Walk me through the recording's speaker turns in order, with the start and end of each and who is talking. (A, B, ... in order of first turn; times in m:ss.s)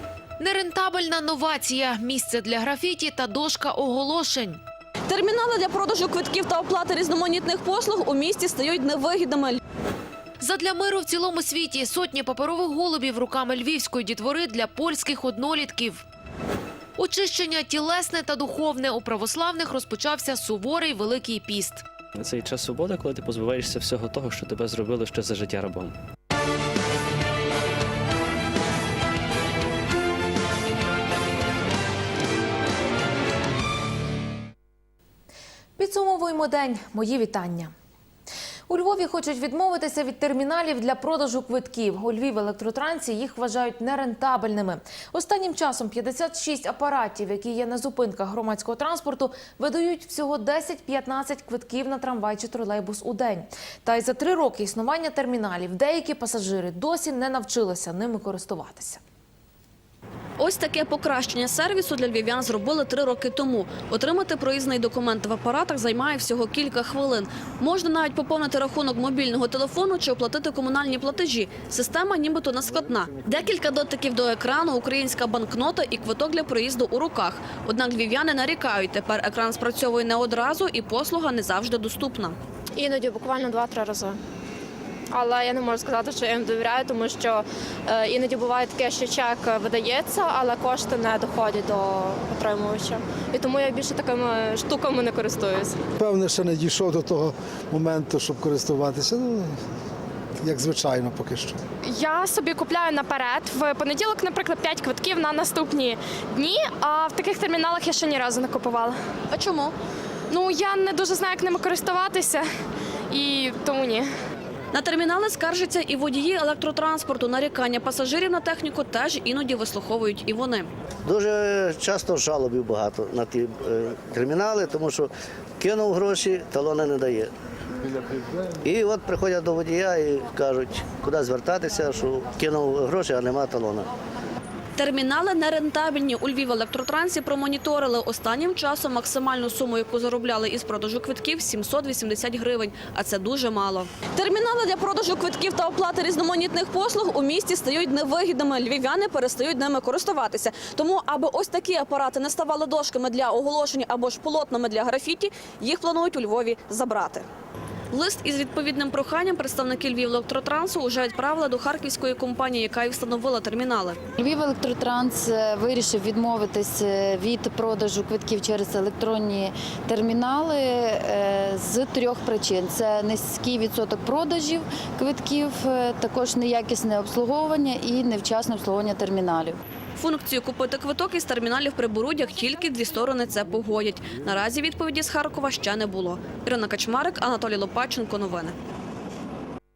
0:00.4-0:04.6 A
0:05.1-0:09.6 B
0:10.4-0:16.0 A
0:17.0-0:21.8 A
0:22.2-0:25.9 C
0:35.8-0:37.7 A
0:38.7-0:59.0 A
1:00.4-1:22.4 B
1:22.7-1:24.2 D
1:25.1-1:35.8 D
1:36.0-1:39.4 E
1:40.4-1:41.5 E
1:41.8-1:49.0 D
1:49.3-1:49.7 B
1:50.3-1:52.4 D
1:53.1-1:54.1 D
1:54.7-2:00.7 B
2:01.0-2:05.1 F
2:05.6-2:07.3 F
2:08.6-2:13.9 F
2:14.8-2:37.2 B
2:37.9-2:44.0 B
2:44.2-2:59.6 G
3:00.0-3:08.5 B